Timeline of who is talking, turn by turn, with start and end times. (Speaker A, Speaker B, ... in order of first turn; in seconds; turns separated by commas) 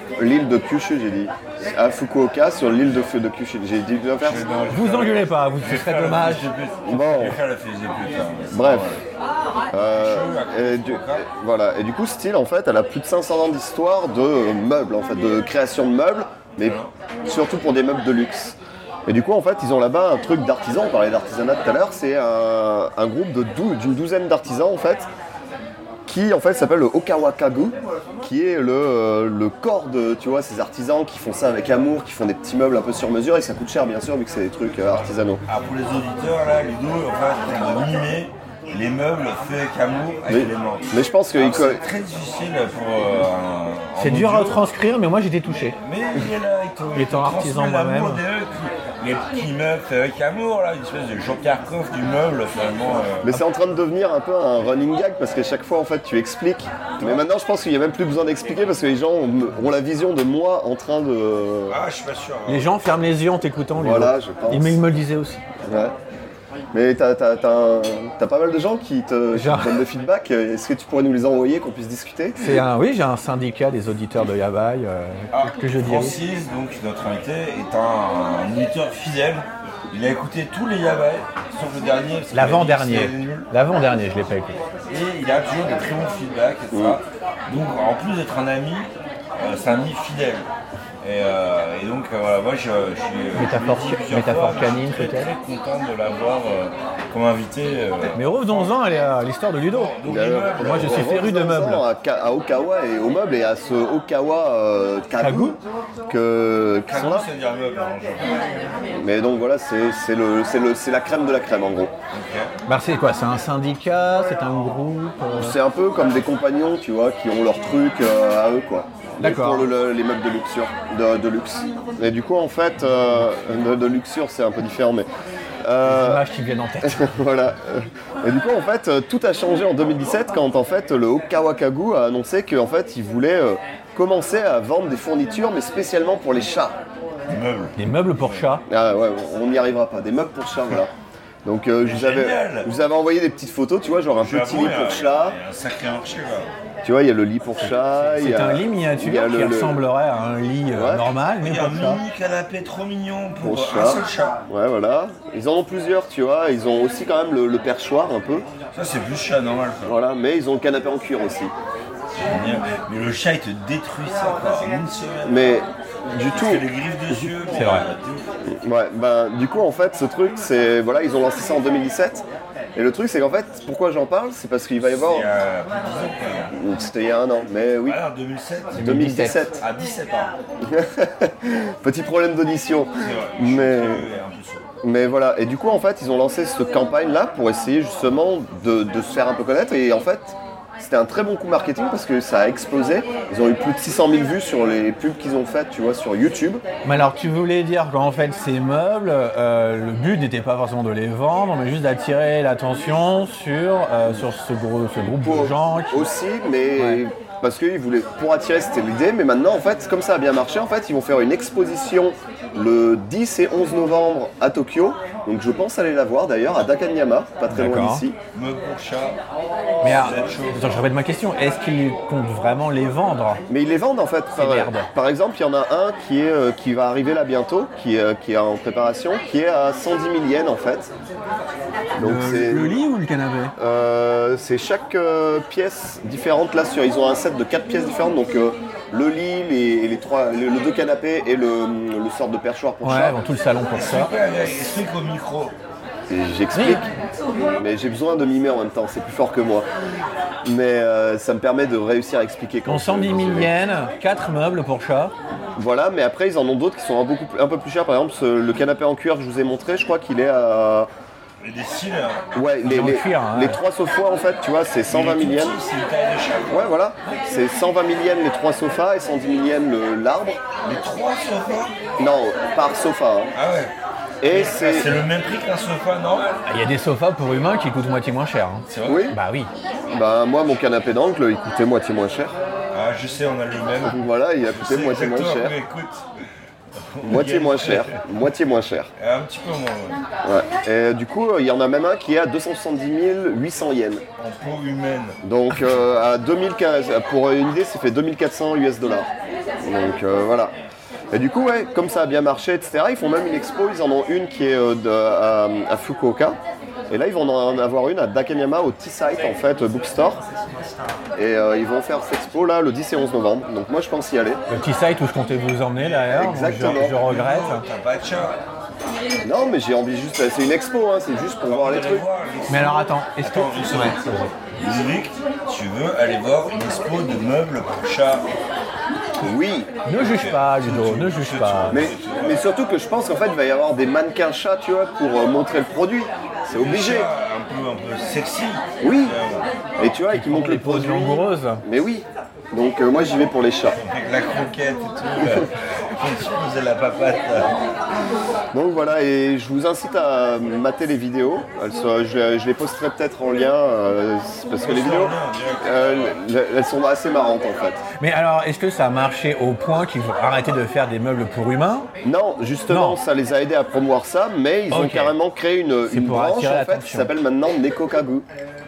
Speaker A: 0.2-4.5, Speaker B: 4.2-9.0, Speaker C: 4.7-6.4, Speaker A: 6.9-7.4, Speaker A: 8.5-8.9, Speaker A: 9.7-25.1, Speaker B: 9.7-11.2, Speaker B: 16.6-16.9, Speaker A: 26.1-35.4, Speaker B: 34.9-44.8, Speaker A: 40.3-41.8, Speaker C: 44.0-45.8, Speaker B: 45.5-53.4, Speaker C: 46.9-48.2, Speaker A: 53.2-61.8, Speaker B: 61.7-62.7, Speaker C: 62.5-65.4, Speaker A: 63.8-64.8, Speaker A: 65.7-65.9, Speaker A: 66.7-72.6, Speaker C: 69.3-69.8, Speaker C: 72.4-76.2, Speaker B: 75.3-83.5, Speaker C: 82.3-84.6, Speaker B: 84.9-90.5, Speaker A: 86.7-87.0, Speaker B: 91.0-98.7, Speaker C: 93.4-95.3, Speaker C: 98.1-100.0, Speaker B: 99.7-101.1, Speaker A: 100.0-107.2, Speaker C: 100.6-101.8, Speaker C: 105.2-105.6, Speaker B: 106.9-108.4, Speaker A: 108.9-111.9, Speaker B: 112.1-112.5, Speaker C: 112.7-115.5, Speaker A: 115.3-125.1, Speaker C: 119.2-119.7, Speaker A: 125.6-126.2, Speaker C: 125.8-127.2, Speaker A: 126.8-136.8, Speaker B: 137.3-138.5, Speaker C: 137.8-138.6, Speaker A: 138.7-140.9, Speaker A: 141.4-145.4, Speaker B: 141.8-142.7, Speaker B: 144.2-146.5, Speaker A: 146.8-149.8, Speaker C: 147.9-152.0, Speaker A: 150.7-151.1, Speaker B: 151.4-154.4, Speaker A: 153.4-158.5, Speaker B: 158.7-160.0, Speaker A: 159.8-161.5, Speaker B: 162.2-165.6, Speaker A: 165.2-166.7, Speaker B: 166.3-168.3, Speaker C: 167.5-167.9, Speaker A: 168.5-175.3, Speaker B: 174.8-176.5, Speaker A: 176.5-178.0, Speaker B: 177.8-180.3, Speaker C: 178.8-179.4, Speaker A: 178.8-179.6, Speaker A: 180.6-184.0, Speaker B: 183.0-184.6, Speaker A: 184.8-196.6, Speaker C: 196.8-206.1, Speaker A: 205.2-218.2, Speaker C: 217.5-218.0, Speaker B: 218.3-219.2, Speaker B: 219.8-220.8, Speaker C: 219.8-223.4, Speaker A: 223.5-230.9, Speaker C: 224.3-224.9, Speaker A: 231.9-232.8, Speaker C: 232.0-233.5, Speaker A: 233.6-243.2, Speaker C: 242.8-244.1, Speaker B: 243.7-245.5, Speaker A: 246.1-246.9, Speaker C: 246.5-246.8, Speaker A: 247.6-249.7, Speaker A: 250.4-253.5, Speaker C: 252.7-255.1, Speaker A: 255.6-260.9, Speaker B: 261.4-262.2, Speaker A: 262.3-265.5, Speaker C: 262.6-263.6, Speaker B: 264.9-266.7, Speaker A: 266.5-270.4, Speaker B: 270.6-271.8, Speaker A: 272.0-273.3, Speaker B: 273.3-273.7, Speaker A: 274.2-275.0, Speaker B: 274.2-276.4, Speaker C: 276.4-279.5, Speaker B: 278.7-279.1, Speaker A: 278.8-279.2, Speaker A: 279.9-282.3, Speaker B: 282.7-284.0, Speaker A: 283.9-285.5, Speaker B: 284.5-286.0, Speaker B: 286.8-288.0, Speaker A: 287.0-288.9, Speaker B: 289.0-290.0, Speaker A: 290.2-294.0, Speaker B: 294.2-295.2, Speaker A: 295.2-299.1, Speaker A: 299.6-300.5, Speaker A: 301.1-306.4, Speaker A: 306.9-310.2, Speaker A: 311.1-314.4, Speaker C: 314.5-317.6, Speaker B: 315.7-318.4, Speaker A: 316.1-317.0, Speaker A: 319.2-322.0, Speaker B: 321.4-328.3, Speaker C: 322.5-324.3, Speaker A: 329.2-329.7, Speaker C: 329.8-331.9, Speaker B: 329.9-332.4, Speaker A: 331.7-337.1, Speaker B: 336.5-339.9, Speaker A: 338.8-339.1, Speaker A: 339.8-343.8, Speaker C: 340.1-341.6, Speaker B: 343.7-347.6, Speaker A: 345.2-345.4, Speaker A: 348.5-357.8, Speaker B: 354.6-356.1, Speaker C: 358.0-361.9, Speaker A: 362.0-368.2, Speaker C: 362.7-363.0, Speaker C: 364.7-365.1, Speaker C: 365.9-367.1